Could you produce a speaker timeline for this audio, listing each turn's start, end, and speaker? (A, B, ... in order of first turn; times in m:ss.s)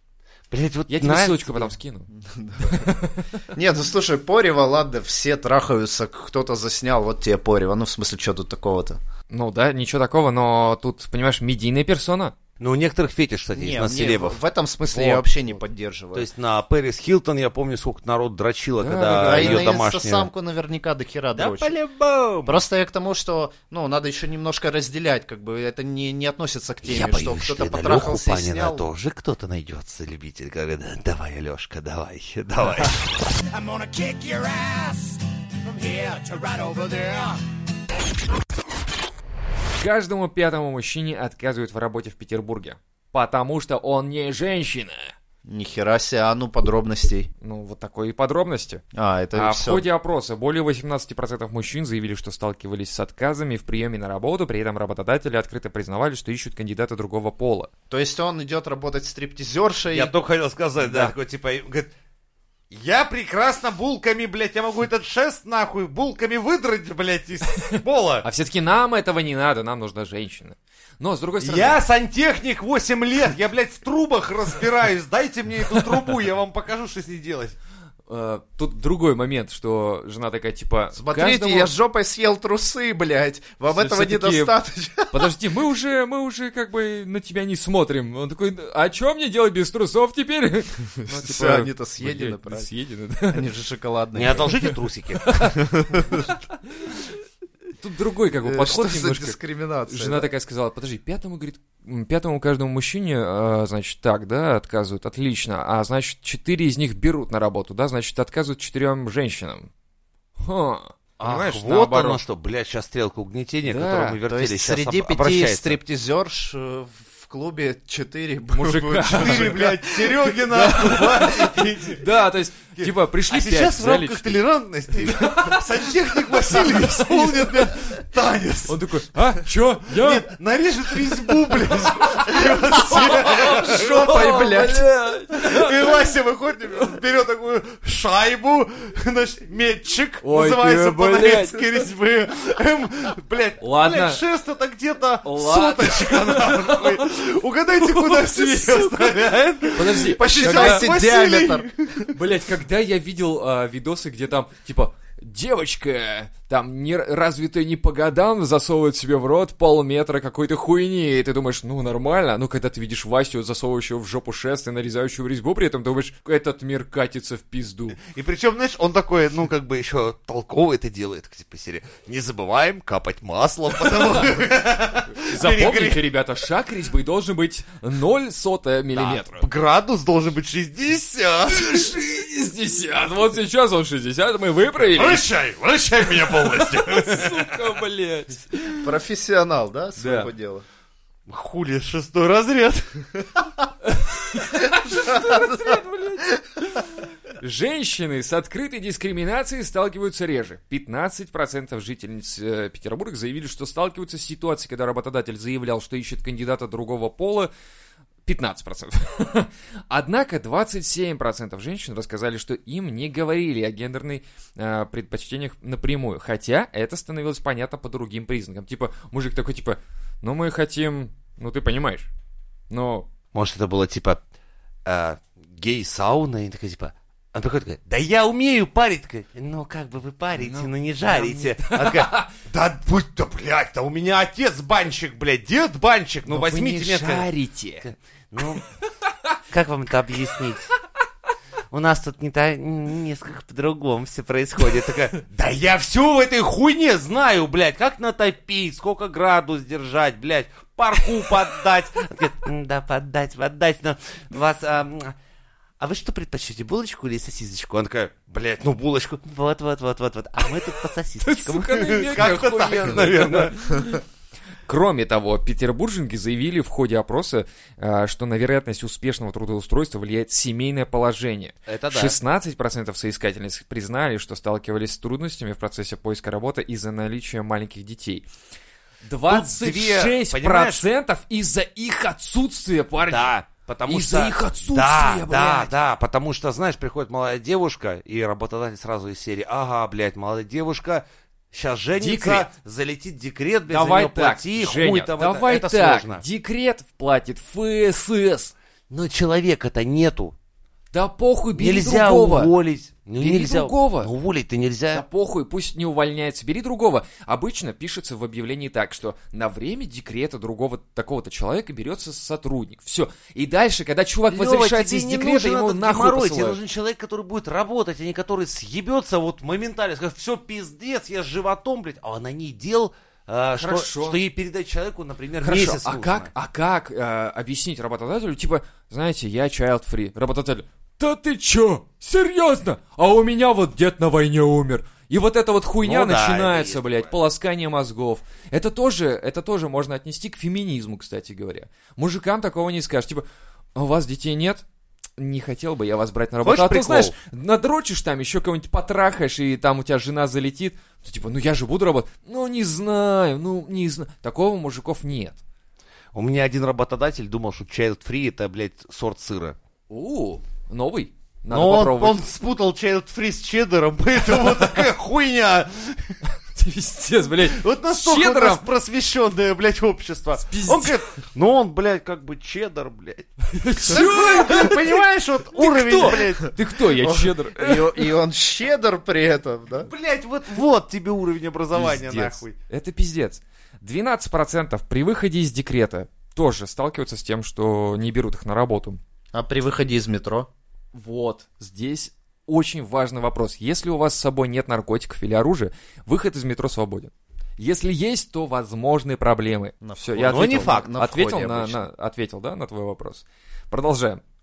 0:00.5-0:01.7 A
0:00.9-0:02.1 B
0:02.1-0:03.0 C
0:02.6-0:03.4 B
0:03.5-0:09.0 C
0:09.3-0:12.3 B
0:12.6-0:14.4 A
0:13.5-0:16.3 C
0:14.9-0:15.6 B
0:16.1-0:20.3 A
0:18.8-0:19.7 B
0:19.2-0:21.7 C
0:21.4-0:22.6 A
0:22.4-0:28.8 C
0:26.8-0:33.1 A
0:33.3-0:37.4 D
0:39.8-0:45.1 B
0:45.4-0:47.3 C
0:47.4-0:48.8 B
0:48.9-0:49.8 C
0:49.3-0:57.7 B
0:57.9-1:00.1 C
0:59.9-1:01.9 A
1:00.8-1:01.1 B
1:02.7-1:08.2 A
1:07.6-1:11.8 B
1:11.4-1:17.6 A
1:18.1-1:21.7 B
1:20.9-1:25.3 C
1:23.7-1:24.6 B
1:25.1-1:33.4 B
1:31.1-1:32.7 C
1:33.3-1:34.6 C
1:34.1-1:35.5 A
1:35.2-1:37.1 B
1:35.6-1:36.2 C
1:37.8-1:49.7 B
1:38.4-1:40.3 C
1:50.4-1:52.2 B
1:51.2-1:55.8 A
1:53.6-1:54.2 B
1:54.3-2:00.7 C
1:58.5-1:59.6 B
1:59.1-2:02.2 A
2:00.5-2:04.4 B
2:02.7-2:08.9 A
2:05.0-2:07.8 B
2:08.7-2:10.3 B
2:09.8-2:14.6 A
2:11.7-2:15.9 B
2:12.7-2:14.9 C
2:15.3-2:31.7 A
2:20.2-2:21.6 B
2:23.6-2:24.2 B
2:25.2-2:27.1 B
2:27.8-2:29.2 B
2:29.7-2:30.9 B
2:30.1-2:32.1 C
2:32.1-2:48.0 B
2:48.0-2:56.0 A
2:55.1-2:59.4 B
2:58.9-3:01.9 A
3:01.5-3:05.2 B
3:04.9-3:07.6 A
3:06.2-3:08.9 B
3:08.8-3:10.6 C
3:10.0-3:10.3 B
3:11.3-3:13.3 A
3:13.8-3:27.5 B
3:15.1-3:15.5 C
3:28.2-3:42.1 B
3:42.7-3:43.1 B
3:43.3-3:44.2 A
3:44.8-3:57.3 A
3:50.4-3:52.3 B
3:56.3-3:57.9 B
3:57.8-3:58.6 A
3:59.5-4:00.7 A
4:01.7-4:15.1 A
4:15.8-4:23.6 A
4:21.2-4:24.0 B
4:24.6-4:38.3 B
4:31.7-4:32.2 A
4:39.0-4:43.3 B
4:39.3-4:40.8 A
4:43.0-4:56.2 A
4:43.9-4:45.7 B
4:52.0-4:52.5 B
4:53.7-4:58.5 B
4:58.9-5:00.3 A
5:00.9-5:02.5 B
5:01.6-5:05.0 A
5:03.2-5:04.1 B
5:04.9-5:16.6 B
5:14.3-5:26.3 A
5:23.6-5:24.2 B
5:25.4-5:44.6 B
5:35.8-5:37.1 A
5:45.2-5:55.4 B
5:46.4-5:47.1 A
5:56.1-5:59.6 A
5:59.9-6:02.2 B
6:01.5-6:06.2 A
6:06.5-6:08.6 B
6:07.4-6:16.5 A
6:10.4-6:11.0 B
6:13.5-6:15.0 B
6:15.5-6:18.1 B
6:17.0-6:19.9 C
6:19.8-6:22.5 A
6:21.7-6:29.0 B
6:29.3-6:30.5 C
6:30.9-6:44.2 B
6:39.8-6:41.8 C
6:40.2-6:40.9 A